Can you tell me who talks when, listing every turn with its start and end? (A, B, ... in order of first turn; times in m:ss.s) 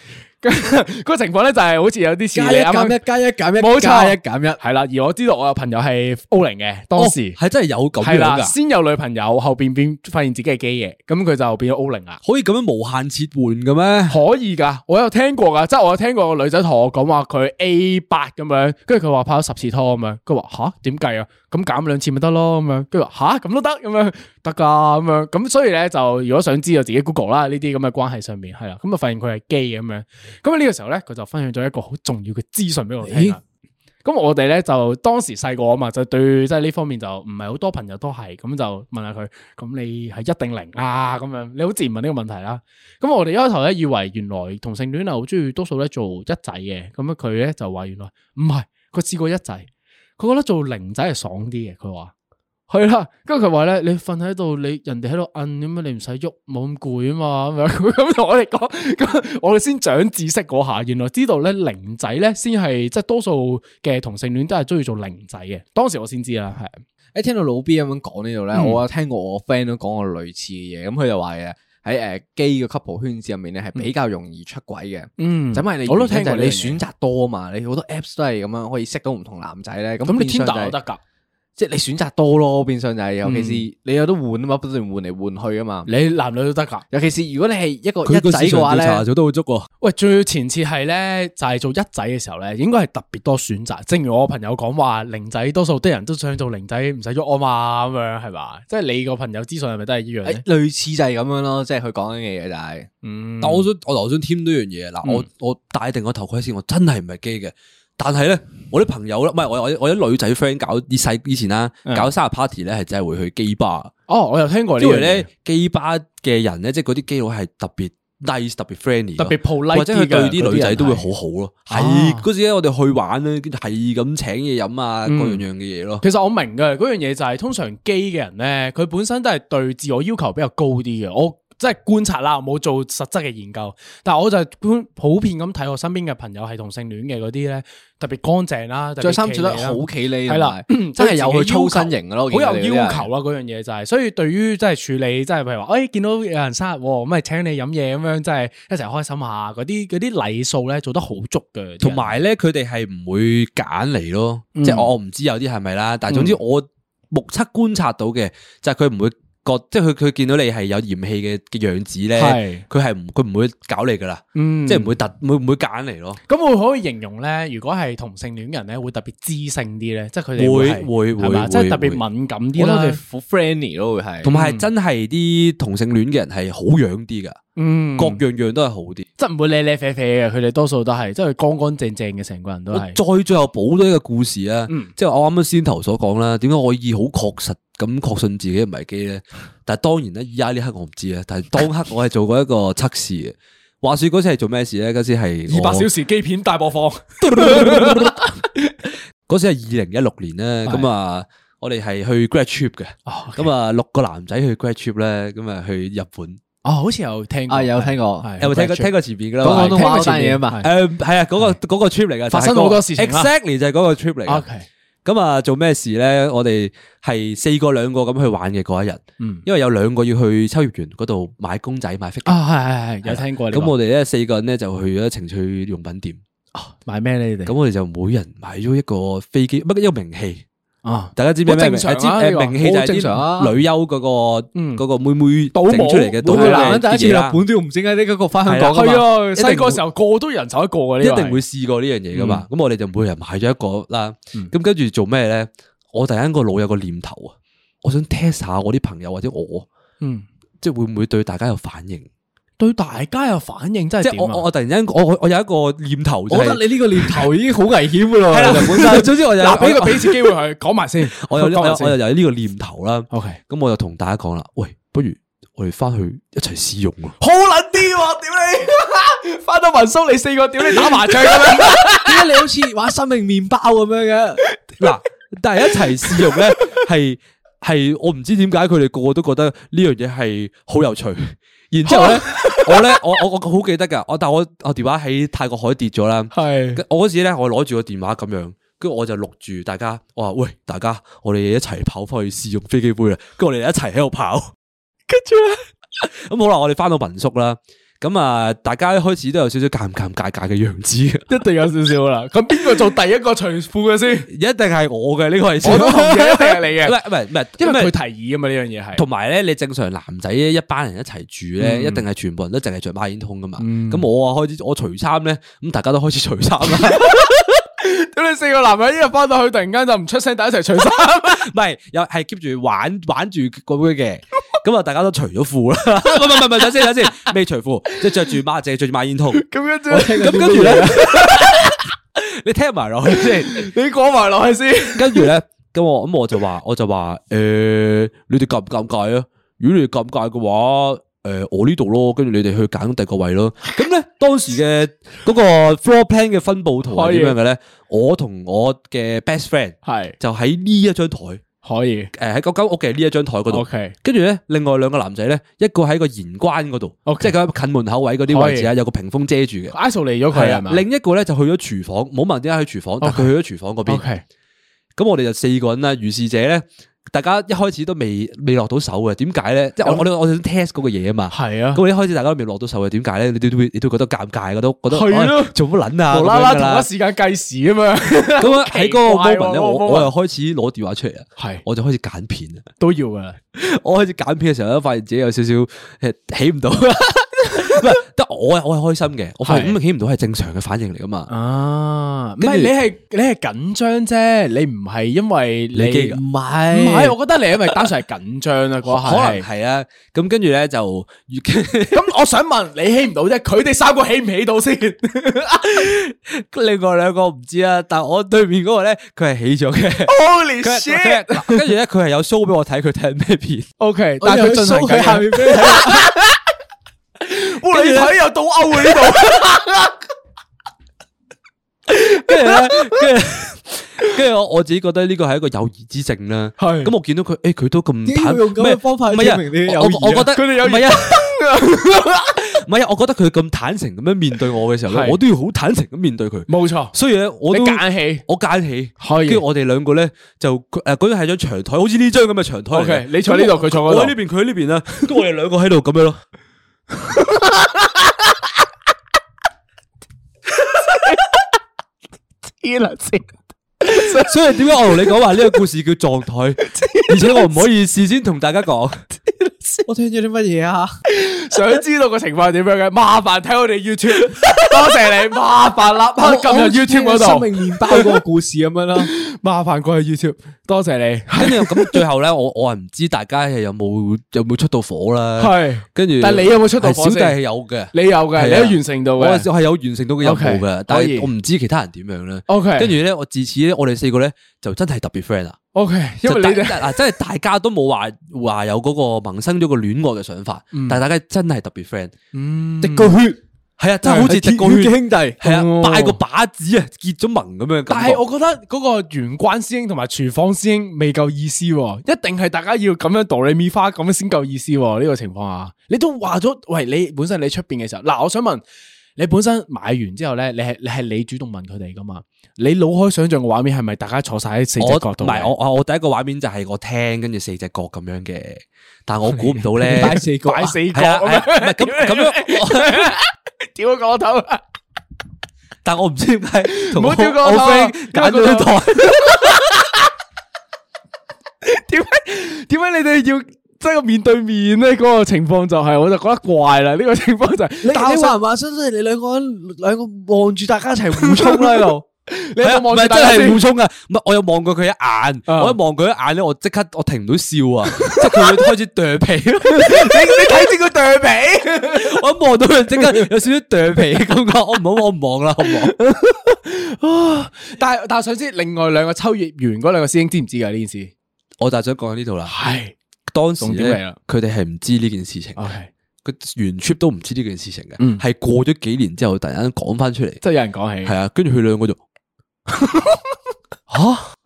0:00.4-0:03.0 A
0:02.3-0:04.6 B
0:03.6-0:07.4 A
0:07.0-0:08.5 C
0:08.0-0:12.2 A
0:12.2-0:14.2 C
0:14.1-0:33.4 A
0:33.0-0:33.4 B
0:34.0-0:49.7 A
0:50.2-0:52.1 A
0:52.7-1:06.8 A
1:07.1-1:20.8 B
1:08.5-1:08.8 A
1:15.2-1:16.8 A
1:20.1-1:21.0 A
1:21.6-1:25.9 B
1:23.2-1:23.6 A
1:25.9-1:26.8 A
1:26.9-1:29.0 B
1:28.0-1:29.7 C
1:29.8-1:40.4 A
1:40.2-1:42.9 B
1:43.0-1:43.7 A
1:43.4-1:53.9 C
1:54.1-1:55.3 A
1:54.8-2:06.0 C
1:59.2-2:01.1 A
2:01.7-2:02.3 A
2:05.1-2:05.4 A
2:06.0-2:32.2 A
2:19.0-2:23.1 B
2:31.8-2:46.2 C
2:34.6-2:34.9 A
2:36.1-2:36.4 A
2:42.2-2:42.6 A
2:44.4-2:45.0 A
2:46.3-2:53.0 A
2:50.4-2:52.0 C
2:52.6-2:54.3 B
2:54.2-2:57.4 C
2:54.3-2:54.7 A
2:57.6-2:58.2 A
2:58.0-2:59.1 C
2:59.2-3:03.0 A
3:02.7-3:15.9 C
3:15.5-3:18.7 A
3:17.2-3:18.3 C
3:19.3-3:26.4 C
3:23.1-3:23.5 A
3:26.6-3:30.7 A
3:27.5-3:28.3 B
3:28.4-3:34.4 C
3:29.4-3:30.6 B
3:32.3-3:33.3 A
3:34.3-3:34.7 A
3:35.0-3:42.4 C
3:42.3-3:43.7 A
3:43.0-3:46.2 C
3:46.5-3:47.5 A
3:47.5-3:50.4 C
3:50.8-3:52.6 A
3:51.2-3:57.4 C
3:52.6-3:53.6 B
3:54.6-3:54.8 A
3:55.5-3:56.8 A
3:56.3-3:59.0 B
3:58.5-3:59.8 C
3:58.7-4:01.4 A
4:01.0-4:09.7 C
4:02.1-4:02.4 A
4:10.0-4:10.3 A
4:10.6-4:12.1 C
4:12.6-4:14.4 A
4:14.0-4:17.3 C
4:16.3-4:19.1 B
4:18.3-4:20.4 C
4:18.4-4:22.0 A
4:21.1-4:27.2 C
4:23.1-4:23.4 A
4:27.2-4:32.3 A
4:31.6-4:34.4 B
4:34.5-4:34.9 A
4:34.8-4:54.5 C
4:35.7-4:36.7 A
4:41.9-4:43.0 A
4:46.3-4:46.8 A
4:55.1-4:55.7 A
4:56.0-5:01.3 C
5:01.3-5:04.3 A
5:04.3-5:07.9 C
5:05.6-5:07.0 A
5:07.6-5:09.0 A
5:09.0-5:17.2 C
5:11.6-5:12.0 A
5:13.6-5:14.0 A
5:16.8-5:21.5 A
5:21.2-5:33.7 C
5:26.4-5:27.3 A
5:29.4-5:31.8 A
5:29.9-5:31.1 B
5:33.1-5:35.3 A
5:35.0-5:51.4 C
5:46.9-5:47.4 A
5:49.8-5:50.2 A
5:51.6-5:52.1 A
5:52.2-5:59.8 C
5:53.5-5:54.0 A
5:57.1-5:57.3 A
5:58.3-5:58.7 A
5:59.7-6:00.8 A
6:00.3-6:04.1 C
6:03.0-6:03.3 A
6:03.9-6:04.2 A
6:05.0-6:16.9 C
6:11.3-6:11.8 A
6:14.9-6:15.6 A
6:16.1-6:20.1 A
6:18.4-6:22.6 C
6:21.4-6:21.6 A
6:22.8-6:23.4 A
6:23.6-6:31.3 C
6:29.4-6:29.8 A
6:31.3-6:36.2 A
6:32.4-6:32.7 C
6:35.7-6:36.2 C
6:36.1-6:37.2 B
6:36.7-6:39.5 A
6:38.8-6:42.0 C
6:41.9-6:45.9 A
6:45.8-6:53.7 C
6:50.1-6:51.6 A
6:53.8-6:56.4 A
6:54.2-6:56.1 B
6:57.2-6:59.9 A
6:57.7-6:58.2 C
7:01.9-7:26.2 C
7:02.1-7:03.0 A
7:06.6-7:06.9 A
7:08.0-7:10.3 B
7:10.3-7:12.4 A
7:14.9-7:15.2 A
7:16.5-7:16.9 A
7:17.5-7:18.2 A
7:19.0-7:19.4 A
7:22.7-7:24.2 A
7:27.0-7:28.2 A
7:30.6-7:31.3 A
7:32.6-7:35.1 A
7:33.9-7:39.0 C
7:36.6-7:37.6 A
7:39.4-7:39.8 A
7:39.9-7:41.0 B
7:41.1-7:48.2 A
7:46.2-7:49.1 B
7:49.0-7:52.0 A
7:51.4-8:05.6 C
7:55.4-7:57.4 A
7:57.9-7:59.5 A
8:00.2-8:01.3 A
8:02.5-8:02.9 A
8:05.7-8:07.0 A
8:06.2-8:12.1 C
8:10.7-8:11.0 A
8:12.3-8:13.2 A
8:12.8-8:13.4 B
8:13.8-8:18.2 C
8:14.1-8:16.2 B
8:17.9-8:28.6 A
8:29.2-8:35.5 A
8:34.8-8:40.2 C
8:39.4-8:44.6 A
8:39.9-8:40.8 B
8:40.9-8:43.1 C
8:45.8-8:49.6 C
8:46.7-8:49.9 A
8:51.6-8:58.4 A
8:57.8-9:02.0 B
9:01.2-9:03.6 A
9:02.6-9:10.7 C
9:05.5-9:05.8 A
9:07.9-9:08.7 A
9:09.7-9:12.2 A
9:11.9-9:16.0 C
9:13.0-9:13.2 A
9:15.6-9:21.1 A
9:21.6-9:22.6 C
9:22.5-9:22.9 A
9:23.3-9:25.6 C
9:23.6-9:24.2 A
9:25.6-9:25.9 A
9:26.2-9:30.4 C
9:30.4-9:31.1 A
9:31.0-9:32.0 C
9:32.7-9:33.2 A
9:33.9-9:34.3 C